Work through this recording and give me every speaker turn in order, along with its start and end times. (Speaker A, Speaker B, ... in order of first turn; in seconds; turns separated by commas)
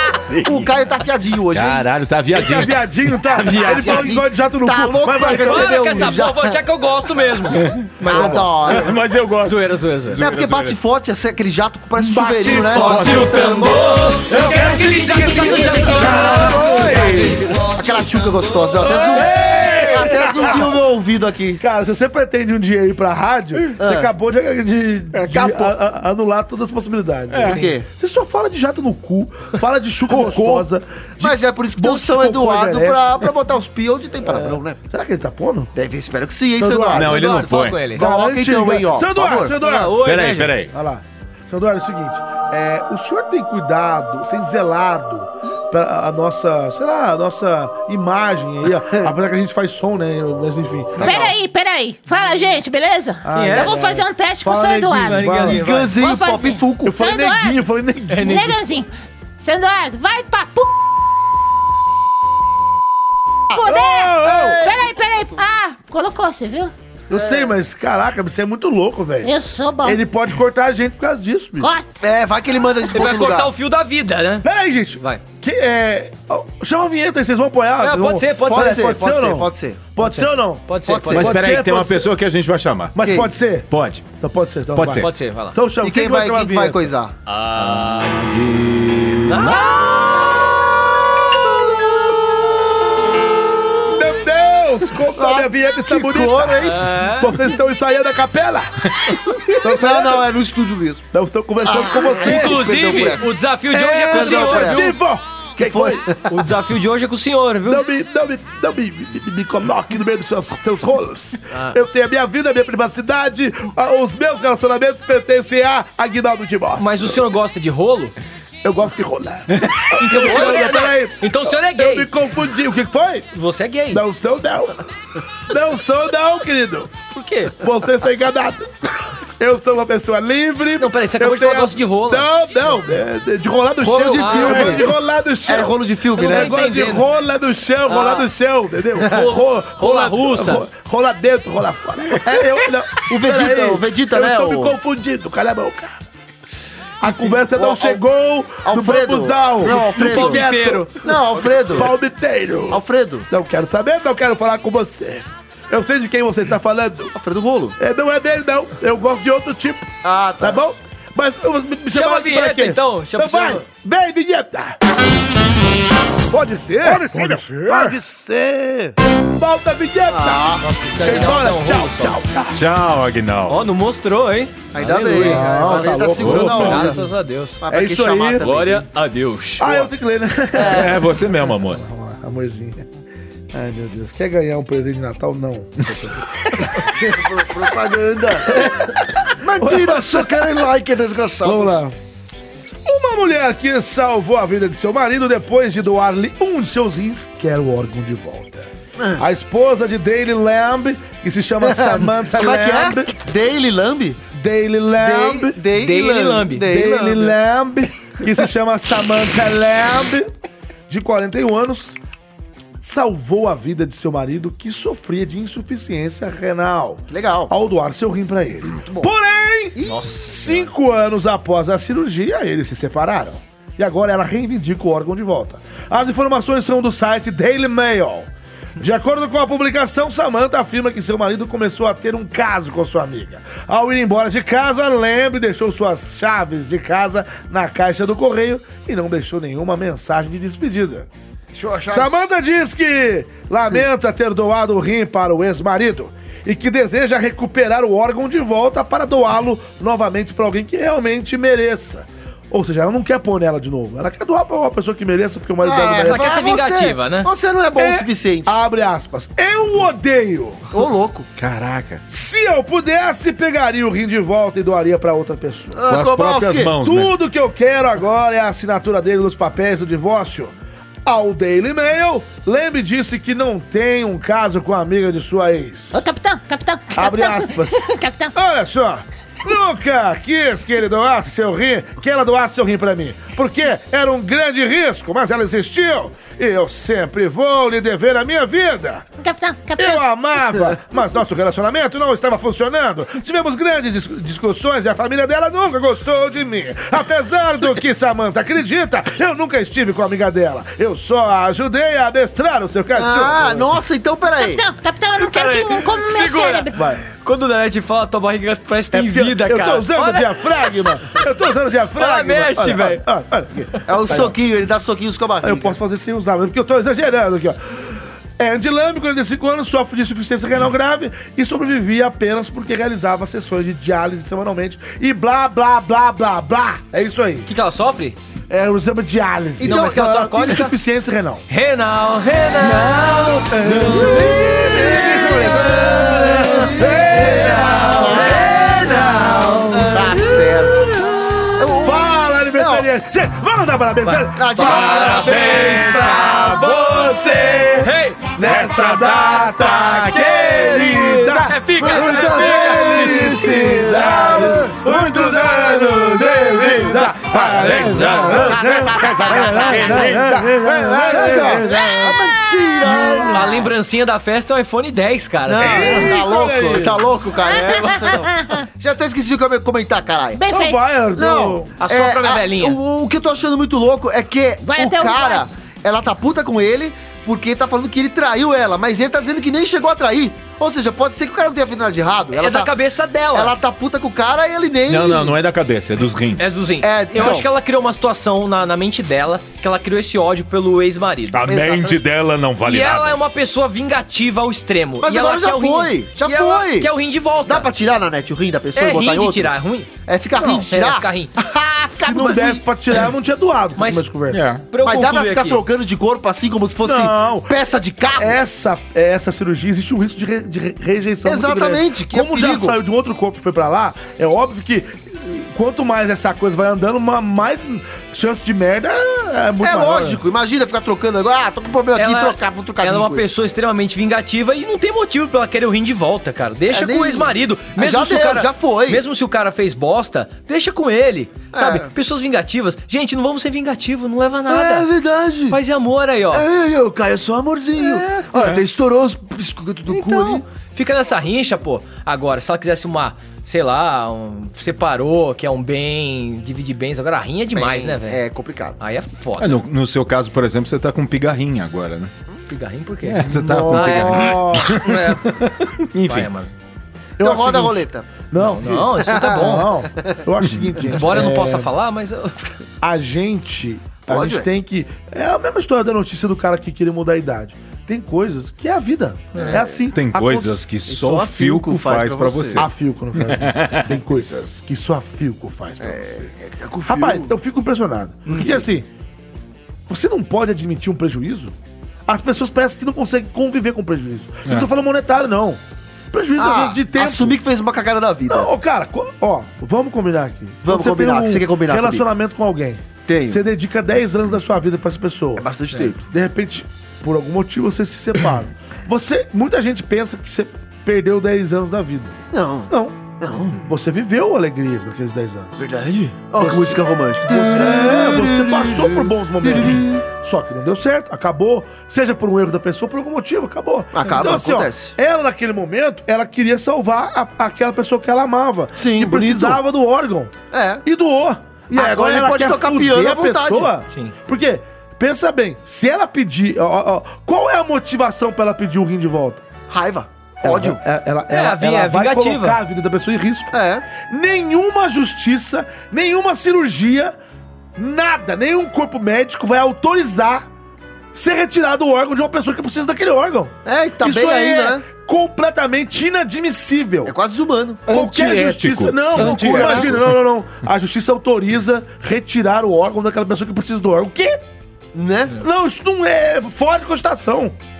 Speaker A: 0.3-0.8, Speaker B: 0.4-1.9, Speaker A: 1.5-4.2, Speaker C: 2.3-6.2, Speaker B: 3.5-6.6, Speaker D: 5.3-8.8, Speaker A: 7.5-10.8, Speaker B: 8.0-8.9, Speaker D: 9.4-10.2, Speaker B: 10.2-13.9, Speaker A: 12.0-13.5, Speaker D: 12.7-17.3, Speaker A: 14.2-17.7, Speaker B: 17.7-21.6, Speaker A: 18.8-20.7, Speaker C: 18.8-20.5, Speaker C: 21.6-33.2, Speaker B: 23.8-24.1, Speaker A: 25.1-25.8, Speaker A: 27.3-27.6, Speaker B: 27.4-27.9, Speaker A: 30.1-30.7, Speaker B: 31.2-34.8, Speaker C: 34.2-35.7, Speaker B: 35.8-37.2, Speaker C: 36.6-37.2, Speaker A: 36.9-37.8, Speaker D: 37.0-38.0, Speaker B: 37.9-39.5, Speaker C: 38.0-40.0, Speaker D: 39.6-40.5, Speaker A: 40.0-40.7, Speaker C: 40.7-51.2, Speaker E: 51.0-57.6, Speaker B: 51.0-51.3, Speaker D: 51.0-51.4, Speaker C: 53.2-55.6, Speaker D: 53.3-53.7, Speaker D: 55.0-55.9, Speaker B: 55.5-57.0, Speaker C: 56.9-58.6, Speaker D: 58.1-58.5, Speaker E: 58.2-58.9, Speaker E: 59.4-60.8, Speaker E: 63.5-66.7, Speaker C: 63.6-64.7, Speaker B: 64.2-64.9, Speaker C: 67.1-71.8, Speaker E: 69.2-70.0, Speaker E: 71.6-71.9, Speaker B: 72.0-73.5, Speaker D: 72.9-74.5, Speaker C: 74.4-82.1, Speaker D: 77.8-78.9, Speaker B: 78.4-79.9, Speaker D: 80.0-81.3, Speaker B: 80.8-81.3, Speaker A: 81.1-83.0, Speaker C: 83.0-86.9, Speaker B: 83.0-83.3, Speaker A: 83.7-84.1, Speaker A: 84.8-85.1, Speaker D: 84.9-85.6, Speaker B: 85.8-87.2, Speaker A: 87.3-89.8, Speaker D: 87.3-87.9, Speaker D: 89.3-90.7, Speaker B: 91.8-92.5, Speaker C: 93.9-100.3, Speaker B: 95.1-96.8, Speaker D: 96.6-97.4, Speaker B: 99.3-101.0, Speaker C: 101.1-103.0, Speaker B: 101.6-103.4, Speaker D: 102.2-105.0, Speaker C: 103.7-106.2, Speaker B: 104.1-105.0, Speaker B: 105.6-106.4, Speaker D: 106.3-107.8, Speaker C: 107.7-117.2, Speaker D: 111.5-111.8, Speaker D: 116.8-118.2, Speaker C: 118.6-123.3, Speaker D: 120.0-122.1, Speaker D: 123.3-124.0, Speaker C: 123.9-124.9, Speaker C: 125.5-126.9, Speaker D: 127.1-127.5, Speaker C: 127.5-146.0, Speaker D: 130.8-132.3, Speaker B: 133.8-134.9, Speaker D: 134.2-134.8, Speaker B: 135.5-136.7, Speaker D: 136.2-137.1, Speaker D: 137.9-138.3, Speaker D: 139.0-140.7, Speaker B: 143.1-144.8, Speaker C: 147.0-157.2, Speaker B: 147.4-148.0, Speaker B: 148.6-150.5, Speaker D: 149.6-151.1, Speaker B: 151.0-151.9, Speaker B: 152.7-153.3, Speaker B: 157.1-157.8, Speaker C: 157.8-164.8, Speaker B: 160.0-160.6, Speaker D: 161.9-163.6, Speaker C: 166.3-172.7, Speaker A: 166.8-168.0, Speaker D: 170.1-172.2, Speaker B: 170.2-171.2, Speaker A: 172.5-173.7, Speaker D: 173.5-177.6, Speaker B: 174.7-177.0, Speaker C: 175.2-177.1, Speaker A: 176.2-176.8, Speaker B: 177.6-178.8, Speaker C: 177.7-178.5, Speaker D: 178.4-179.9, Speaker C: 179.6-182.9, Speaker B: 180.6-181.0, Speaker A: 180.6-181.8, Speaker C: 183.5-186.9, Speaker B: 186.8-188.8, Speaker C: 188.4-190.7, Speaker B: 189.4-191.8, Speaker C: 191.4-192.0, Speaker C: 192.8-203.1, Speaker B: 199.0-199.2, Speaker B: 201.6-204.2, Speaker C: 204.3-205.6, Speaker B: 205.0-207.4, Speaker D: 205.7-206.7, Speaker C: 206.6-210.3, Speaker C: 210.9-212.0, Speaker C: 212.8-241.1, Speaker B: 217.1-217.5, Speaker B: 218.8-219.1, Speaker B: 219.8-220.1, Speaker D: 219.8-220.7, Speaker B: 241.5-242.1, Speaker C: 241.9-256.4, Speaker B: 255.6-258.6, Speaker D: 256.0-257.3, Speaker C: 257.8-260.7, Speaker B: 260.7-261.3, Speaker A: 261.4-262.0, Speaker C: 262.1-265.8, Speaker B: 265.7-266.7, Speaker A: 265.9-267.1, Speaker C: 266.8-270.5, Speaker C: 271.1-276.1, Speaker E: 275.9-278.3, Speaker C: 276.9-289.1, Speaker E: 289.2-290.0, Speaker C: 289.8-303.7, Speaker B: 302.9-304.6, Speaker E: 304.4-306.9, Speaker D: 305.2-310.4, Speaker C: 306.7-307.0, Speaker C: 308.9-314.4, Speaker D: 311.9-313.0, Speaker B: 313.9-315.8, Speaker C: 315.4-327.5, Speaker D: 327.5-328.2, Speaker C: 328.5-331.4, Speaker B: 329.6-330.3, Speaker D: 329.6-330.7, Speaker D: 331.5-334.3, Speaker C: 332.6-362.2, Speaker A: 333.7-333.9, Speaker B: 333.9-338.6, Speaker D: 335.8-338.6, Speaker A: 338.4-339.7, Speaker D: 339.7-340.3, Speaker B: 339.9-340.8, Speaker B: 341.6-342.9, Speaker D: 344.0-347.1, Speaker B: 344.4-345.1, Speaker A: 344.6-347.8, Speaker D: 347.7-348.2, Speaker A: 348.4-351.6, Speaker D: 351.5-353.4, Speaker B: 351.9-353.1, Speaker A: 352.7-361.6, Speaker B: 354.1-354.7, Speaker B: 358.1-360.3, Speaker B: 361.0-363.7, Speaker C: 362.8-363.6, Speaker D: 363.3-366.1, Speaker B: 365.5-370.5, Speaker C: 365.6-367.1, Speaker E: 367.4-368.7, Speaker D: 367.4-368.2, Speaker E: 370.4-370.8, Speaker C: 370.5-371.7, Speaker B: 371.1-382.7, Speaker D: 371.8-372.8, Speaker E: 374.6-375.5, Speaker D: 382.4-383.6, Speaker B: 383.3-385.4, Speaker A: 384.9-386.6, Speaker D: 386.4-391.4, Speaker B: 386.8-387.5, Speaker A: 391.3-393.2, Speaker B: 391.5-392.0, Speaker D: 392.6-397.7, Speaker B: 395.0-396.9, Speaker B: 397.4-399.5, Speaker D: 398.8-399.9, Speaker B: 400.1-402.6, Speaker C: 400.4-400.7, Speaker D: 400.7-401.3, Speaker C: 401.9-404.4, Speaker D: 403.8-404.1, Speaker A: 404.3-404.6, Speaker D: 404.7-405.6, Speaker B: 404.8-408.4, Speaker C: 406.8-420.2, Speaker B: 411.2-412.8, Speaker B: 419.6-423.3, Speaker D: 422.0-434.9, Speaker B: 426.7-429.0, Speaker B: 431.5-431.9, Speaker B: 434.5-435.6, Speaker D: 435.5-436.5, Speaker B: 436.3-440.4, Speaker D: 437.8-438.3, Speaker A: 438.4-438.6, Speaker D: 439.9-448.2, Speaker B: 447.6-448.8, Speaker D: 448.8-449.6, Speaker A: 449.4-452.1, Speaker D: 452.5-455.4, Speaker A: 453.1-456.3, Speaker C: 453.3-454.8, Speaker D: 456.1-456.5, Speaker B: 457.2-458.1, Speaker C: 457.2-461.7, Speaker D: 458.4-459.8, Speaker B: 459.1-460.2, Speaker D: 460.9-462.6, Speaker C: 462.8-470.6, Speaker B: 464.1-464.5, Speaker B: 469.4-469.8, Speaker A: 469.9-473.9, Speaker B: 470.9-472.6, Speaker C: 472.6-476.3, Speaker B: 475.8-477.3, Speaker C: 476.9-478.9, Speaker B: 478.3-478.7, Speaker C: 479.9-481.5, Speaker C: 482.1-485.6, Speaker C: 486.1-487.4, Speaker B: 486.4-488.5, Speaker C: 488.3-495.5, Speaker B: 490.6-492.1, Speaker B: 493.1-493.4, Speaker B: 495.4-496.1, Speaker C: 496.0-505.5, Speaker B: 502.3-503.6, Speaker B: 505.6-510.0, Speaker C: 506.4-529.5, Speaker B: 513.9-515.0, Speaker B: 518.7-519.6, Speaker B: 520.5-520.8, Speaker B: 521.7-523.7, Speaker B: 529.7-530.8, Speaker C: 530.4-537.1, Speaker D: 531.3-532.6, Speaker B: 533.5-533.9, Speaker C: 537.8-540.5, Speaker C: 541.1-547.1, Speaker B: 543.6-544.9, Speaker B: 547.1-547.9, Speaker A: 547.9-550.1, Speaker C: 547.9-554.4, Speaker B: 549.2-549.9, Speaker B: 554.9-555.4, Speaker C: 555.4-557.5